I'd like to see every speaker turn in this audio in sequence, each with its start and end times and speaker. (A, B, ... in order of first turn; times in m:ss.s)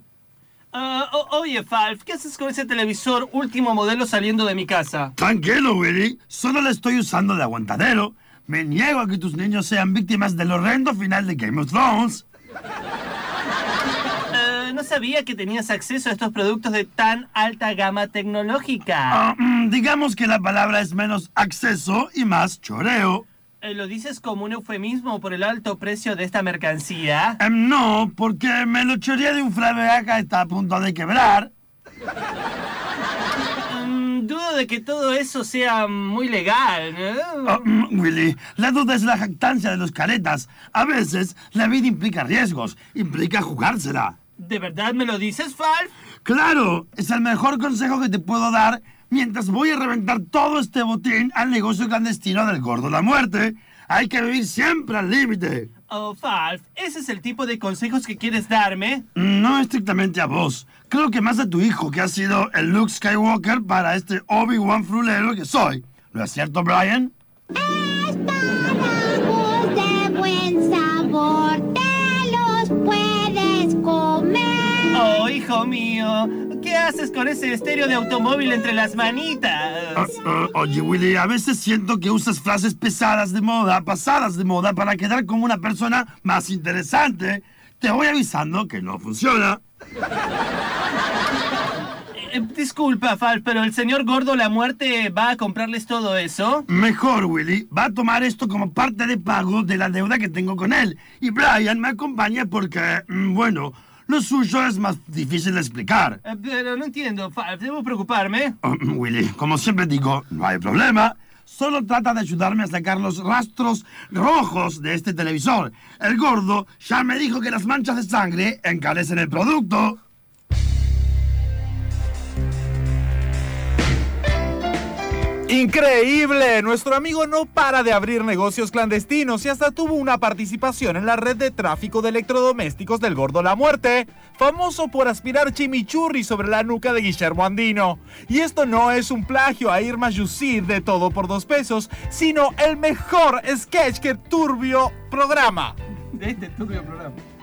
0:00.7-0:05.1 A
0:05.2-0:12.2 B
0:14.3-0:19.2 A
0:19.1-0:23.2 B
0:23.6-0:27.4 A
0:27.4-0:31.5 B
0:33.7-0:37.6 A
0:37.4-0:44.2 B
0:44.4-0:45.9 A
0:46.2-0:55.7 B
0:55.9-0:59.0 A
0:59.2-1:07.1 B
1:07.6-1:14.9 C
1:14.9-1:20.2 A
1:20.0-1:29.6 B
1:32.2-1:36.7 A
1:36.7-1:46.2 B
1:46.2-1:48.6 A
1:48.6-2:00.0 B
2:05.5-2:25.8 D
2:26.1-2:27.2 A